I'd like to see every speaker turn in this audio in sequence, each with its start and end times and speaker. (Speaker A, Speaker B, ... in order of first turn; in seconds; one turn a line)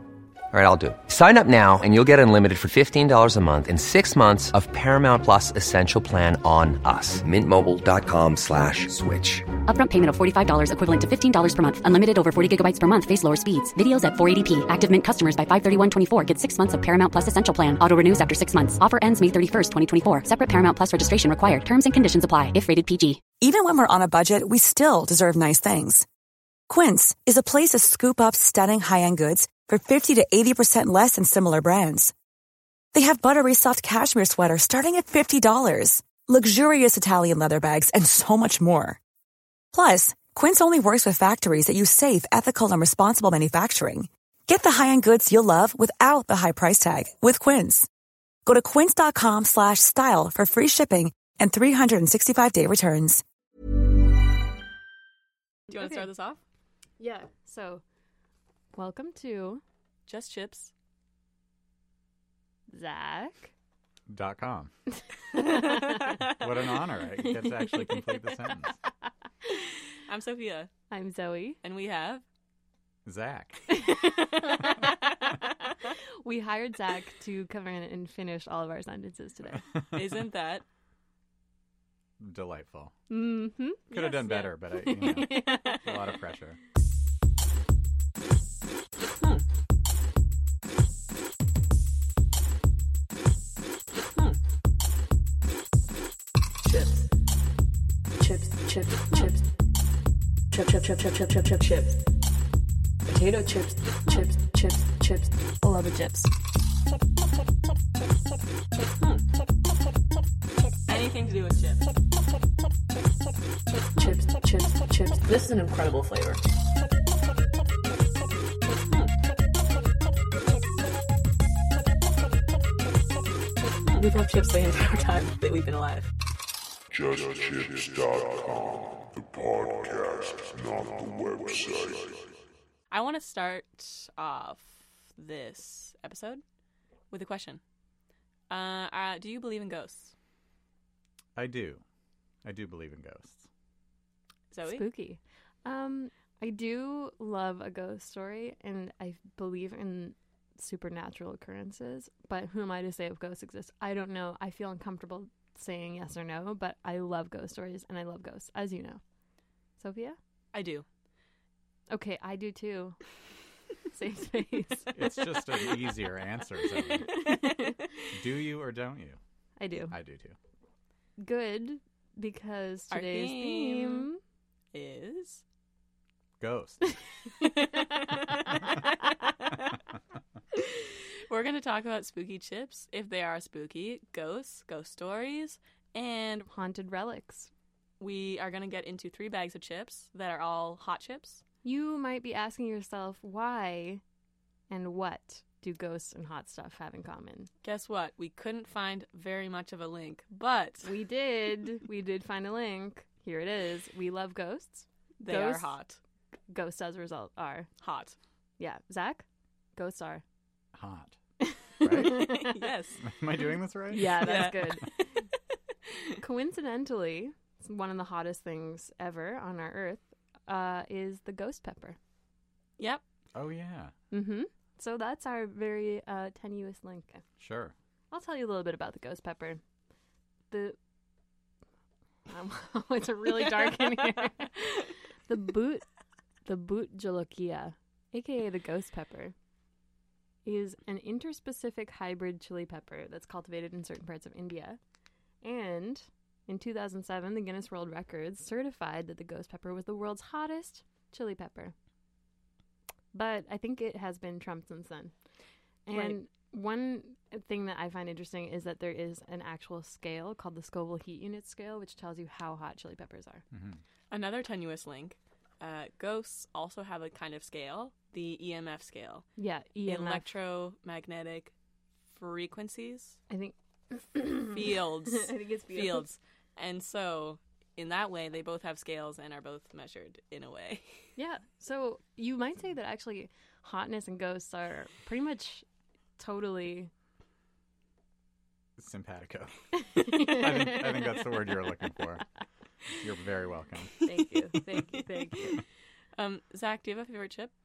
Speaker A: 0.5-9.5
Speaker B: 9.7-23.2
Speaker C: 23.4-26.1
Speaker C: 26.7-32.1
Speaker C: 32.9-39.0
Speaker C: 39.7-47.9
Speaker C: 48.5-53.2
Speaker D: 55.7-56.4
Speaker E: 55.7-56.1
Speaker E: 57.0-57.8
Speaker E: 58.8-59.6
Speaker D: 60.1-60.7
Speaker E: 62.7-63.5
Speaker F: 64.1-64.7
Speaker E: 65.3-66.3
Speaker F: 66.2-68.8
Speaker E: 67.2-68.7
Speaker D: 70.1-70.7
Speaker E: 70.9-71.6
Speaker D: 71.6-72.2
Speaker F: 73.0-73.8
Speaker E: 73.7-74.9
Speaker E: 76.2-79.7
Speaker F: 79.6-80.0
Speaker D: 79.9-80.7
Speaker F: 82.2-83.0
Speaker E: 83.1-83.9
Speaker F: 83.9-86.6
Speaker D: 83.9-85.8
Speaker E: 84.7-85.9
Speaker G: 96.7-97.0
Speaker G: 98.2-99.3
Speaker G: 100.5-101.9
Speaker G: 103.1-106.1
Speaker D: 110.9-111.9
Speaker G: 114.0-116.4
Speaker G: 124.0-125.8
Speaker D: 125.3-126.1
Speaker H: 126.9-132.4
Speaker D: 132.9-136.4
Speaker D: 137.1-137.6
Speaker D: 138.5-140.1
Speaker F: 141.3-141.8
Speaker F: 142.4-143.5
Speaker D: 144.5-144.8
Speaker E: 144.6-159.0
Speaker E: 159.8-160.2
Speaker D: 160.5-160.8
Speaker E: 161.9-163.1
Speaker E: 163.9-165.0
Speaker F: 164.9-167.2
Speaker E: 166.9-167.9
Speaker F: 168.1-169.2
Speaker E: 169.6-169.9
Speaker F: 169.9-170.4
Speaker E: 171.2-174.2
Speaker D: 172.9-174.1
Speaker D: 174.7-175.4
Speaker F: 176.4-176.9
Speaker D: 177.6-178.7
Speaker D: 180.6-186.5
Speaker E: 186.5-187.5
Speaker D: 188.0-191.4
Speaker E: 191.6-194.0
Speaker E: 194.7-197.5
Speaker D: 197.6-200.9
Speaker E: 200.8-205.8
Speaker D: 205.2-206.0
Speaker E: 206.5-207.7
Speaker D: 207.8-208.2
Speaker E: 208.6-209.2
Speaker E: 209.8-210.2
Speaker F: 210.7-211.2
Speaker E: 211.4-212.5
Speaker F: 211.8-212.4
Speaker D: 212.0-213.0
Speaker F: 213.0-214.5
Speaker E: 213.9-215.2
Speaker D: 214.0-215.2
Speaker E: 216.2-222.0
Speaker D: 222.8-223.0
Speaker F: 223.3-223.9
Speaker E: 224.1-227.2
Speaker F: 227.4-227.7
Speaker E: 228.1-229.6
Speaker E: 230.5-230.8
Speaker E: 232.3-235.8
Speaker E: 236.4-239.3
Speaker E: 240.4-244.8
Speaker E: 245.4-251.7
Speaker E: 253.1-255.1
Speaker E: 255.8-263.4
Speaker D: 255.9-256.2
Speaker F: 263.5-263.8
Speaker D: 264.1-269.3
Speaker E: 269.4-270.2
Speaker D: 269.8-271.5
Speaker D: 272.1-273.2
Speaker E: 273.3-276.1
Speaker D: 274.5-281.0
Speaker E: 281.2-285.6
Speaker E: 286.2-286.9
Speaker F: 288.8-292.2
Speaker E: 290.0-290.9
Speaker F: 293.0-293.9
Speaker E: 294.0-295.6
Speaker D: 294.9-295.6
Speaker D: 296.2-297.5